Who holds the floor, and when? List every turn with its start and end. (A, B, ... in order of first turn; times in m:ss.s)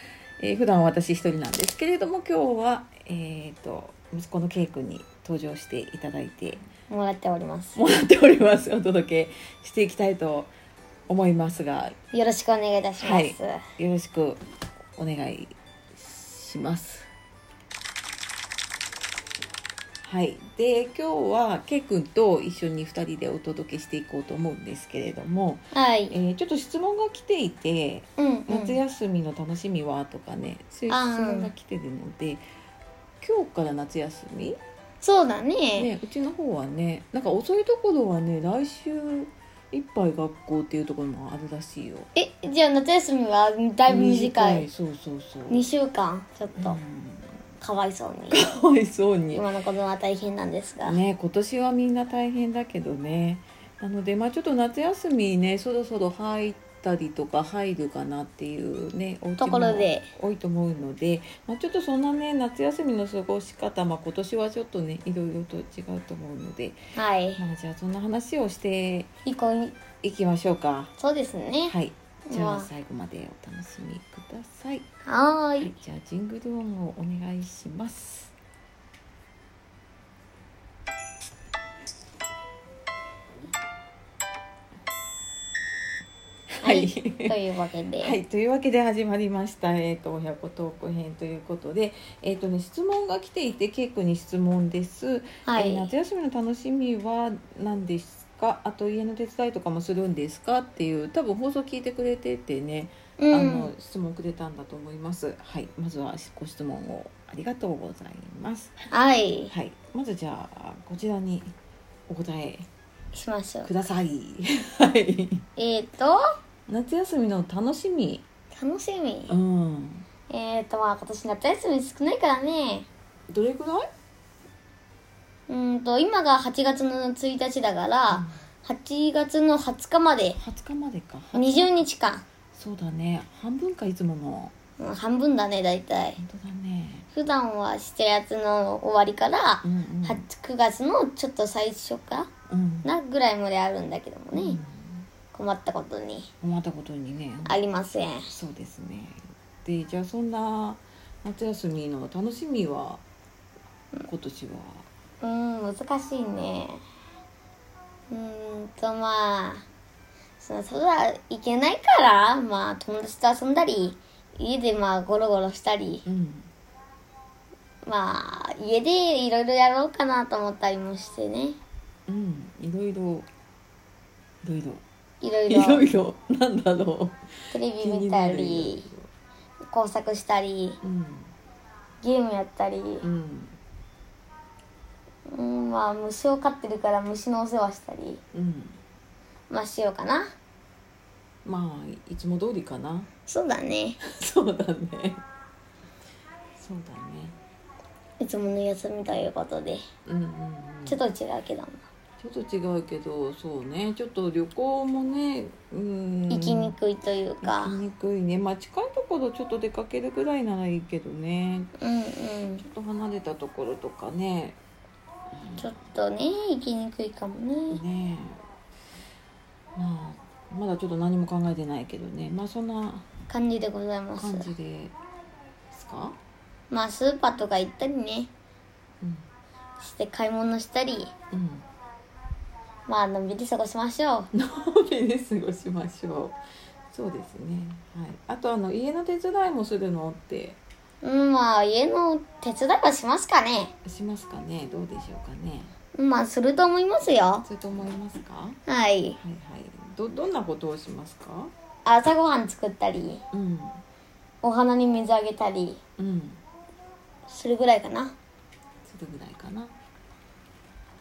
0:00.4-0:06.6 A
0:06.9-0:07.8 B
0:07.8-0:10.5 A
0:11.1-0:11.9 A
0:12.1-0:13.6 B
0:13.0-0:14.4 A
0:15.0-0:17.1 A
0:20.0-0:32.4 A
0:25.7-0:26.1 B
0:28.2-0:28.8 B
0:30.9-0:31.5 B
0:33.2-0:34.6 A
0:35.0-0:35.9 B
0:35.8-0:42.1 A
0:42.1-0:44.6 B
0:43.9-0:45.7 A
0:45.5-0:46.8 B
0:46.6-0:47.4 A
0:47.6-0:48.4 B
0:48.3-0:49.4 A
0:49.3-0:51.0 B
0:50.8-1:06.8 A
0:59.4-1:00.1 B
1:07.0-1:07.4 B
1:07.4-1:09.1 A
1:09.2-1:09.8 B
1:10.0-1:10.9 A
1:11.0-1:11.8 B
1:11.6-1:14.9 A
1:12.3-1:12.7 B
1:15.0-1:15.7 B
1:15.6-1:18.3 A
1:26.6-1:27.3 A
1:26.6-1:28.2 B
1:28.0-1:48.7 A
1:35.4-1:35.9 B
1:43.2-1:43.7 B
1:48.9-1:49.5 B
1:49.5-1:51.5 A
1:52.1-1:52.6 A
1:53.1-1:53.7 B
1:53.6-1:55.4 A
1:55.6-1:56.2 B
1:56.7-1:58.2 A
1:58.5-1:59.3 B
1:59.3-2:00.1 A
2:00.3-2:02.9 B
2:03.3-2:03.9 A
2:05.5-2:10.4 B
2:08.1-2:08.4 A
2:10.4-2:11.8 A
2:11.3-2:12.2 B
2:12.5-2:14.5 A
2:14.8-2:16.2 B
2:16.2-2:17.1 A
2:17.1-2:22.3 B
2:19.6-2:20.2 A
2:22.5-2:22.9 A
2:22.8-2:24.6 B
2:24.3-2:25.0 A
2:25.3-2:26.3 B
2:26.4-2:27.5 A
2:27.4-2:28.3 B
2:28.3-2:33.0 A
2:34.0-2:34.8 A
2:35.2-2:36.8 B
2:38.1-2:39.6 B
2:40.4-2:46.0 B
2:46.0-2:46.5 A
2:47.8-2:51.6 B
2:52.1-2:53.3 A
2:54.4-2:54.8 A
2:55.2-2:55.9 B
2:55.5-2:59.1 A
2:57.5-2:58.9 B
2:59.7-3:00.8 B
3:00.8-3:01.3 A
3:02.0-3:03.0 B
3:03.0-3:03.6 A
3:05.3-3:08.2 B
3:08.3-3:08.8 A
3:09.5-3:10.3 B
3:11.4-3:13.1 A
3:13.3-3:14.0 B
3:14.0-3:15.2 A
3:16.6-3:17.4 A
3:18.2-3:19.8 B
3:20.0-3:21.0 A
3:20.8-3:21.8 B
3:22.2-3:26.7 A
3:26.3-3:27.8 B
3:27.4-3:31.8 A
3:31.8-3:32.6 B
3:32.6-3:34.6 A
3:35.3-3:35.8 A
3:35.6-3:37.8 B
3:37.7-3:38.4 A
3:39.8-3:43.1 A
3:43.3-3:44.5 B
3:44.2-3:44.9 A
3:45.7-3:46.2 A
3:46.7-3:48.3 B
3:49.0-3:49.3 A
3:49.8-3:51.1 B
3:51.3-3:51.7 A
3:52.9-3:54.3 B
3:54.3-3:56.4 A
3:56.9-4:00.6 A
4:01.0-4:03.7 B
4:03.8-4:05.7 A
4:05.9-4:07.4 B
4:07.4-4:08.6 A
4:08.7-4:09.2 B
4:09.2-4:11.5 A
4:11.8-4:13.2 B
4:13.3-4:13.8 A
4:14.4-4:15.8 B
4:16.0-4:16.4 A
4:17.3-4:18.1 B
4:18.8-4:19.7 A